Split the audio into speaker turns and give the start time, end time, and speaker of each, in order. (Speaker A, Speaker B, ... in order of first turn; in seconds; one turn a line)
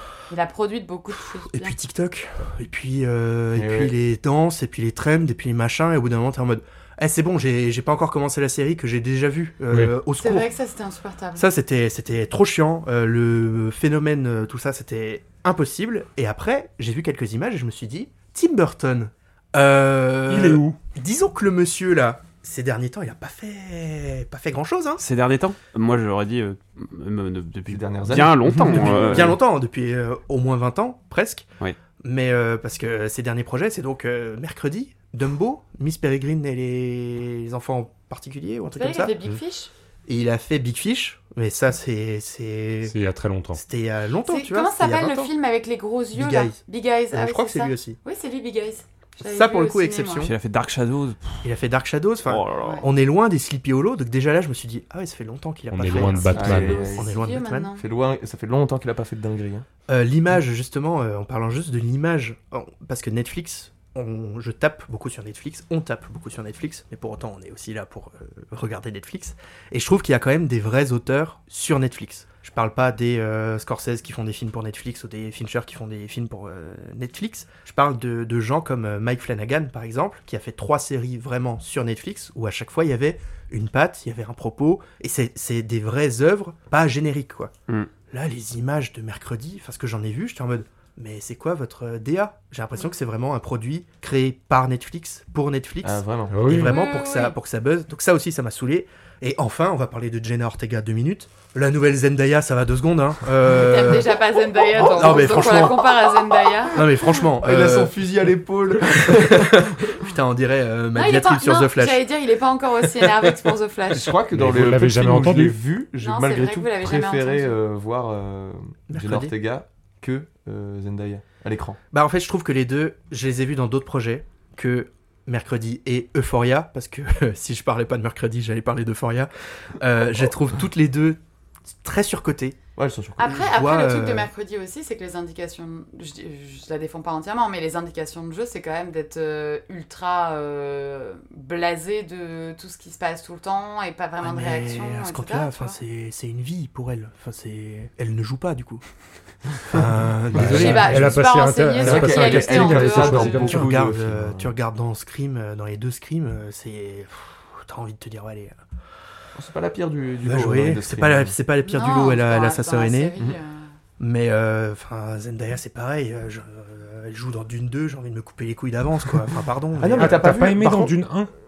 Speaker A: 0.3-1.7
Speaker B: 1.4-10.5
Speaker C: 3.5-3.9
Speaker A: 10.2-11.4
Speaker B: 11.3-25.0
Speaker D: 20.3-20.8
Speaker E: 25.0-29.4
Speaker C: 27.7-29.4
Speaker B: 28.6-31.5
Speaker B: 32.0-39.1
Speaker A: 38.8-39.7
Speaker B: 40.0-43.0
Speaker D: 42.8-43.6
Speaker B: 43.5-45.3
Speaker A: 44.3-50.3
Speaker B: 46.1-46.6
Speaker B: 47.1-48.0
Speaker B: 49.2-50.3
Speaker E: 50.2-51.5
Speaker B: 51.4-57.7
Speaker E: 52.2-52.8
Speaker D: 55.7-56.9
Speaker C: 55.9-57.1
Speaker A: 56.1-57.8
Speaker C: 57.8-59.6
Speaker B: 59.9-87.5
Speaker B: 88.1-104.2
Speaker C: 95.8-96.5
Speaker D: 96.3-96.8
Speaker A: 96.5-97.3
Speaker A: 103.5-106.8
Speaker B: 104.8-105.8
Speaker C: 104.9-105.7
Speaker B: 106.7-107.9
Speaker C: 107.4-109.9
Speaker B: 108.9-112.0
Speaker A: 110.9-114.2
Speaker C: 113.9-121.8
Speaker D: 114.3-115.6
Speaker A: 116.0-117.6
Speaker B: 118.9-119.3
Speaker B: 121.9-132.6
Speaker C: 132.8-133.4
Speaker A: 133.2-145.8
Speaker B: 133.2-134.3
Speaker B: 144.2-148.8
Speaker B: 149.6-151.2
Speaker D: 150.3-153.8
Speaker C: 150.4-150.7
Speaker A: 150.5-153.5
Speaker C: 151.8-154.5
Speaker B: 152.8-158.6
Speaker C: 159.3-161.3
Speaker B: 160.2-163.1
Speaker A: 161.6-163.7
Speaker B: 164.0-170.3
Speaker C: 169.8-170.9
Speaker D: 169.9-171.3